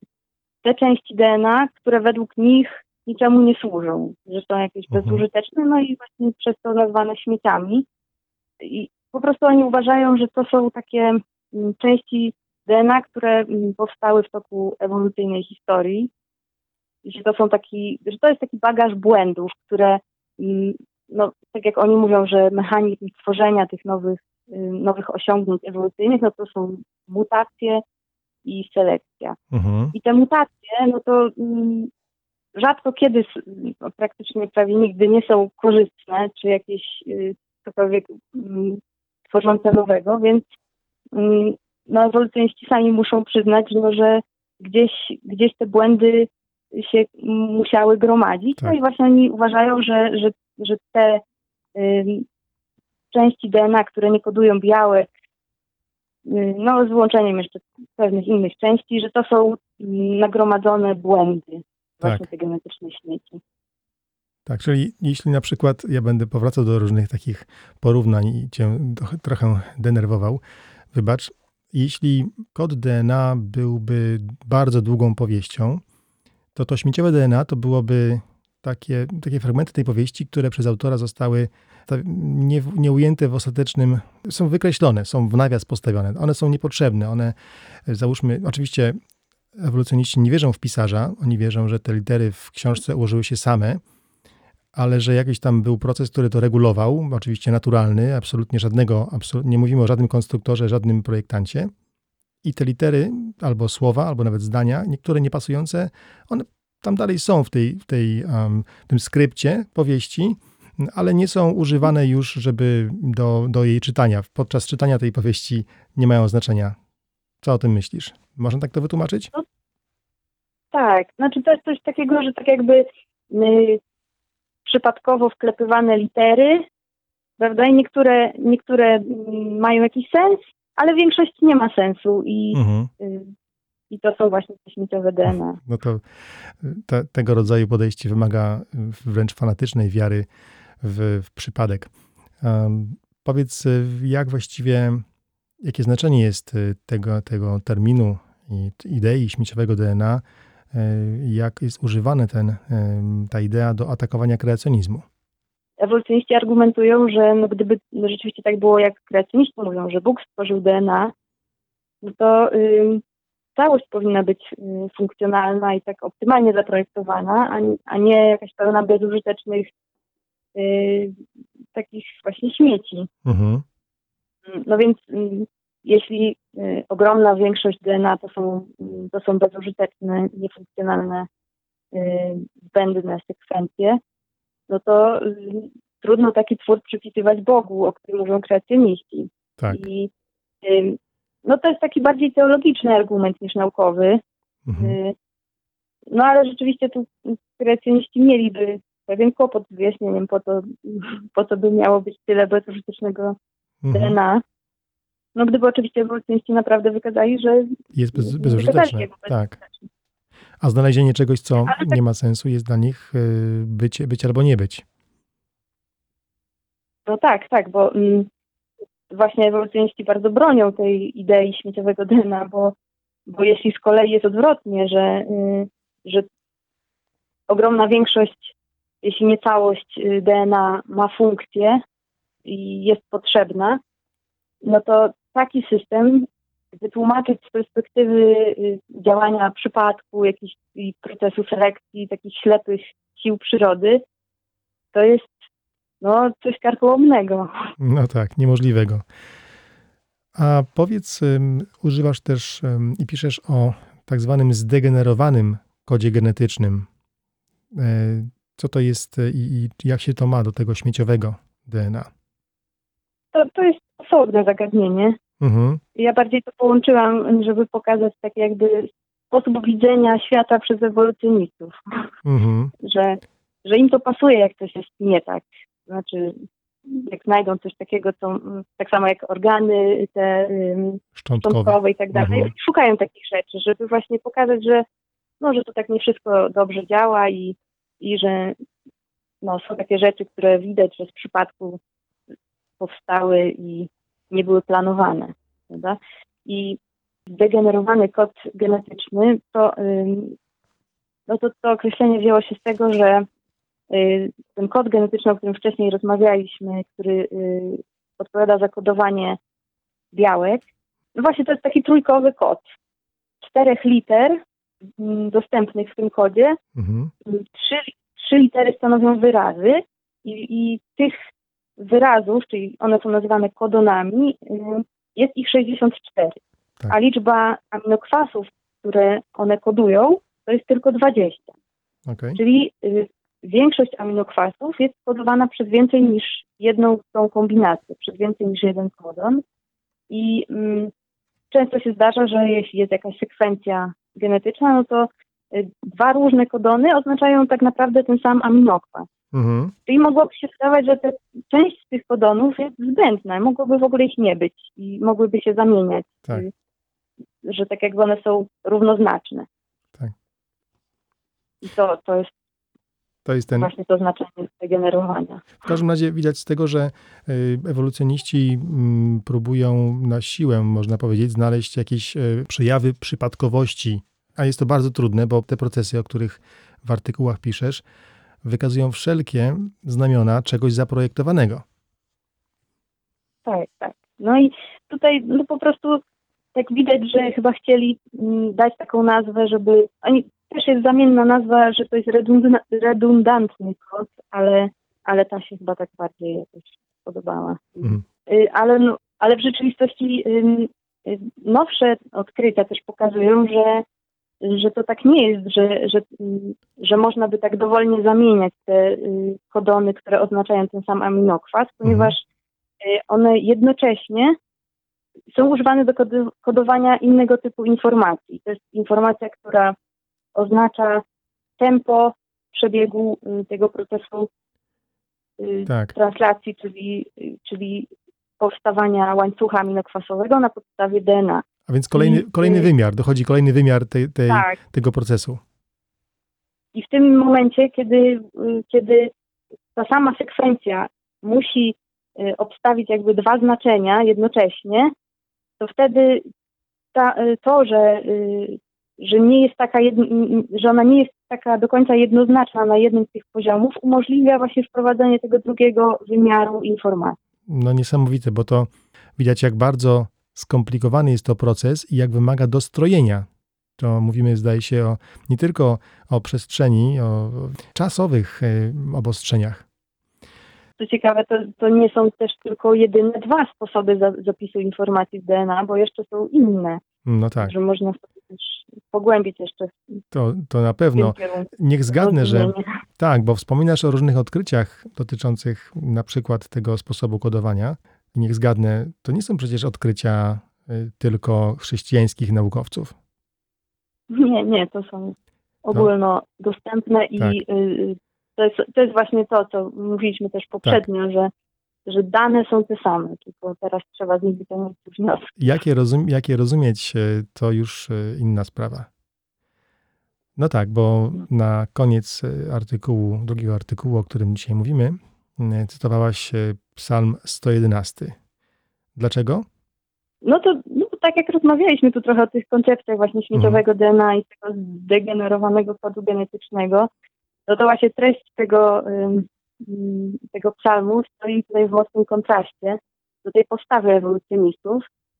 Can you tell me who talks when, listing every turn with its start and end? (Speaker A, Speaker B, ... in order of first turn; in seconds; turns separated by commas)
Speaker A: 0.6-7.8, Speaker B: 4.9-5.2, Speaker A: 8.6-16.1, Speaker A: 17.0-27.8, Speaker A: 28.4-29.4, Speaker B: 29.5-29.9, Speaker A: 29.9-31.9, Speaker A: 32.5-40.4, Speaker A: 41.1-51.2, Speaker A: 51.7-52.2, Speaker A: 53.1-55.1, Speaker A: 56.2-63.4, Speaker B: 64.5-70.4, Speaker B: 70.9-75.8, Speaker B: 76.5-87.3, Speaker B: 87.8-89.0, Speaker B: 89.5-93.8, Speaker B: 94.7-101.7, Speaker B: 102.4-116.8, Speaker B: 117.4-119.3, Speaker A: 120.7-123.8, Speaker A: 124.6-126.7, Speaker A: 127.4-133.3, Speaker B: 132.5-132.9, Speaker A: 133.9-135.6, Speaker B: 135.6-136.0, Speaker B: 136.6-140.3, Speaker B: 140.8-141.9, Speaker B: 142.4-145.0, Speaker B: 145.6-150.2, Speaker B: 150.7-155.0, Speaker A: 155.8-161.1, Speaker A: 162.0-163.0, Speaker A: 163.6-169.7, Speaker A: 170.5-171.2, Speaker A: 171.7-173.1, Speaker B: 173.2-173.6, Speaker A: 174.4-181.3, Speaker A: 181.9-184.0, Speaker A: 184.7-190.1, Speaker A: 190.6-194.2, Speaker B: 194.7-195.0, Speaker A: 194.8-195.1, Speaker A: 196.1-203.3, Speaker B: 203.8-204.2, Speaker A: 203.9-204.4, Speaker A: 205.3-209.9, Speaker B: 207.9-209.6, Speaker B: 210.6-214.8, Speaker A: 211.7-211.9, Speaker A: 217.1-218.3, Speaker A: 219.1-222.7, Speaker A: 223.3-226.3, Speaker A: 227.5-231.8, Speaker A: 232.4-233.8, Speaker A: 234.6-244.0, Speaker A: 244.9-245.3, Speaker A: 246.0-247.7, Speaker B: 247.8-249.0, Speaker B: 250.3-256.9, Speaker B: 257.7-262.1, Speaker A: 263.3-265.2, Speaker B: 265.4-265.8, Speaker A: 265.9-271.8, Speaker B: 272.2-272.7, Speaker A: 272.8-284.8, Speaker B: 281.2-282.5, Speaker A: 285.4-288.6, Speaker A: 289.4-291.8, Speaker A: 292.8-300.4, Speaker A: 301.3-303.3, Speaker A: 303.9-309.4, Speaker A: 310.1-310.6, Speaker A: 311.1-312.6, Speaker A: 313.4-314.4, Speaker A: 315.0-316.6, Speaker B: 316.8-317.1, Speaker A: 317.2-321.2, Speaker A: 321.8-331.5, Speaker B: 332.1-332.4, Speaker A: 332.4-339.4, Speaker A: 340.1-340.9, Speaker A: 341.5-349.1, Speaker B: 349.3-349.7, Speaker A: 349.9-356.5, Speaker A: 357.4-359.5, Speaker A: 361.6-362.3, Speaker B: 363.2-363.7, Speaker A: 363.6-365.6, Speaker B: 365.6-377.8, Speaker B: 378.4-381.6, Speaker A: 383.4-386.0, Speaker A: 386.5-403.8, Speaker A: 404.4-412.2, Speaker B: 411.8-412.1, Speaker A: 412.8-414.4, Speaker A: 415.3-419.7, Speaker A: 420.3-421.0, Speaker A: 421.6-424.3, Speaker A: 425.4-432.7, Speaker B: 425.7-425.9, Speaker B: 431.7-435.4, Speaker A: 434.3-434.6, Speaker A: 436.7-439.1, Speaker A: 439.7-444.9, Speaker A: 445.6-446.3, Speaker A: 446.9-457.2, Speaker B: 457.5-463.3, Speaker B: 463.8-469.6, Speaker A: 470.8-476.8, Speaker B: 477.1-477.5, Speaker A: 477.4-480.0, Speaker B: 480.1-492.9, Speaker A: 480.9-482.6, Speaker A: 494.1-501.3, Speaker A: 501.9-505.4, Speaker B: 505.4-508.9, Speaker B: 510.4-518.2, Speaker B: 519.0-519.5, Speaker A: 520.2-526.9, Speaker B: 523.3-523.6, Speaker A: 527.5-534.9